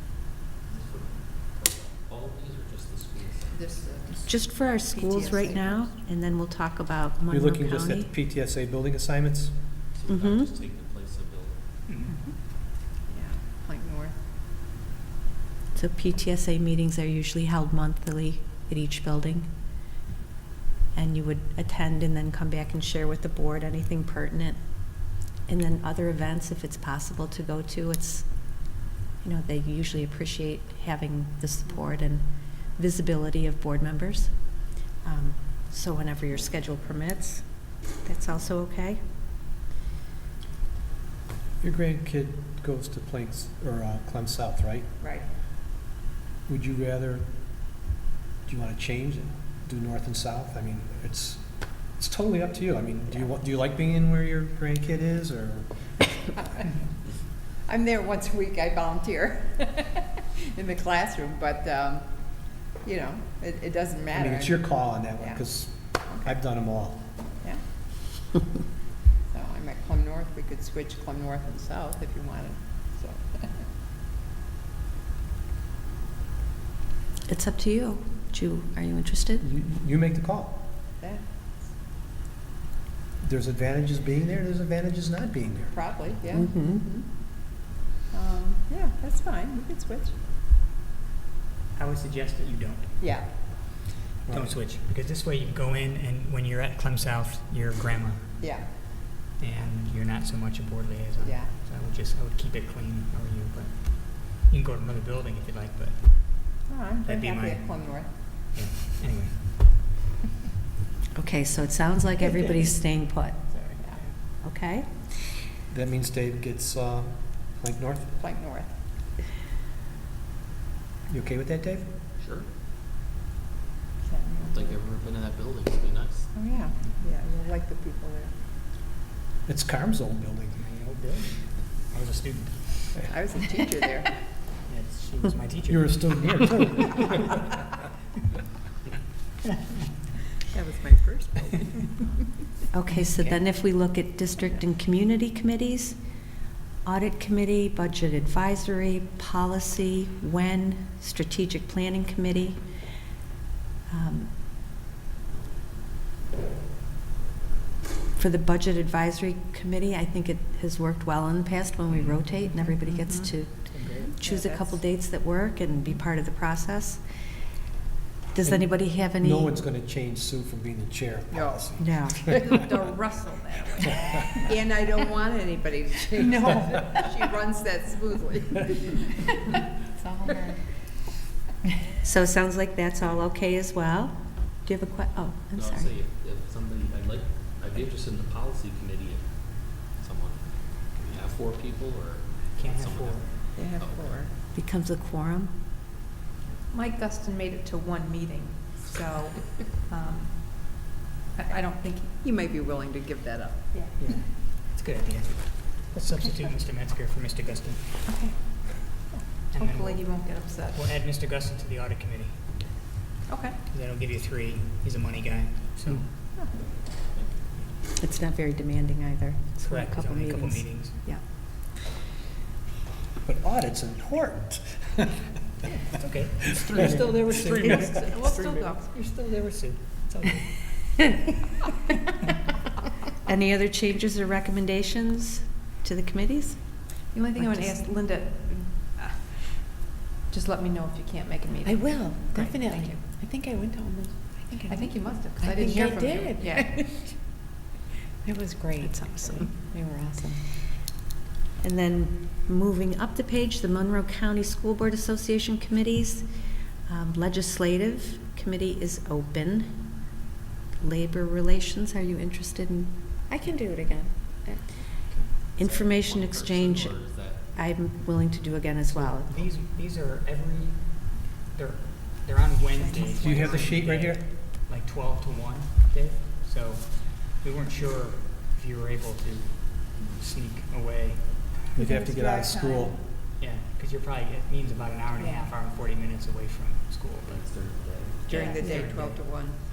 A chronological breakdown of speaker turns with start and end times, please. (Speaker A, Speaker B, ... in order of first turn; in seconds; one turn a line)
Speaker A: 0.7-4.1
Speaker B: 3.5-4.2
Speaker C: 4.2-8.1
Speaker D: 7.3-9.5
Speaker A: 9.9-11.6
Speaker C: 10.1-10.4
Speaker E: 11.9-12.2
Speaker B: 13.1-14.2
Speaker C: 15.8-19.5
Speaker C: 20.9-39.0
Speaker D: 41.6-44.9
Speaker D: 46.5-47.3
Speaker D: 48.5-55.7
Speaker B: 57.7-62.1
Speaker B: 62.8-64.5
Speaker D: 64.1-67.0
Speaker B: 69.3-73.6
Speaker C: 77.3-79.5
Speaker D: 79.4-80.6
Speaker B: 81.0-81.3
Speaker D: 83.2-85.8
Speaker B: 85.7-86.5
Speaker C: 86.3-86.8
Speaker B: 88.1-90.2
Speaker E: 91.8-93.3
Speaker B: 93.0-93.3
Speaker D: 94.3-94.6
Speaker E: 94.3-98.4
Speaker B: 98.4-98.7
Speaker E: 99.4-106.5
Speaker B: 101.2-101.5
Speaker B: 106.7-108.1
Speaker E: 107.1-109.5
Speaker C: 111.2-113.5
Speaker B: 113.5-114.0
Speaker C: 114.4-115.1
Speaker D: 115.7-118.1
Speaker B: 118.2-118.7
Speaker D: 121.1-121.9
Speaker A: 122.2-122.5
Speaker B: 124.1-124.8
Speaker A: 124.5-126.3
Speaker B: 126.3-128.3
Speaker D: 129.5-130.6
Speaker E: 130.6-133.0
Speaker B: 133.1-134.1
Speaker E: 134.7-136.5
Speaker D: 135.7-137.4
Speaker B: 140.5-142.1
Speaker C: 142.7-146.0
Speaker E: 143.1-143.4
Speaker C: 146.8-152.6
Speaker C: 153.9-154.3
Speaker C: 158.2-167.0
Speaker E: 161.9-162.2
Speaker F: 162.6-163.3
Speaker E: 163.7-164.1
Speaker F: 164.2-164.6
Speaker C: 168.3-169.5
Speaker D: 168.5-172.5
Speaker B: 171.3-171.7
Speaker C: 171.8-172.3
Speaker F: 172.3-174.5
Speaker B: 174.5-178.9
Speaker F: 176.5-177.0
Speaker B: 180.0-180.5
Speaker C: 182.0-185.9
Speaker A: 185.5-194.3
Speaker E: 192.6-193.3
Speaker B: 193.6-194.3
Speaker C: 194.5-195.5
Speaker F: 196.7-200.8
Speaker F: 201.4-202.2
Speaker B: 202.2-203.7
Speaker E: 204.0-208.2
Speaker F: 208.1-208.8
Speaker E: 209.5-212.9
Speaker F: 209.6-210.8
Speaker F: 213.3-213.6
Speaker E: 213.7-216.1
Speaker A: 216.9-217.4
Speaker C: 218.0-221.2
Speaker E: 219.6-221.0
Speaker D: 223.2-225.1
Speaker E: 225.9-230.9
Speaker D: 226.6-227.9
Speaker F: 228.1-228.8
Speaker C: 233.3-237.8
Speaker F: 237.0-239.7
Speaker F: 240.3-243.2
Speaker G: 241.9-244.5
Speaker F: 244.7-246.7
Speaker G: 245.6-246.2
Speaker G: 248.2-248.8
Speaker C: 248.8-249.6
Speaker G: 249.8-250.3
Speaker C: 251.6-260.0
Speaker C: 260.8-264.7
Speaker E: 265.1-265.3
Speaker A: 265.6-267.4
Speaker C: 265.6-269.4
Speaker E: 268.9-281.6
Speaker F: 272.8-273.3
Speaker D: 273.2-274.2
Speaker F: 281.8-283.0
Speaker D: 281.8-283.0
Speaker E: 283.4-287.4
Speaker A: 287.3-288.5
Speaker E: 288.3-289.2
Speaker F: 288.3-288.9
Speaker B: 288.3-289.6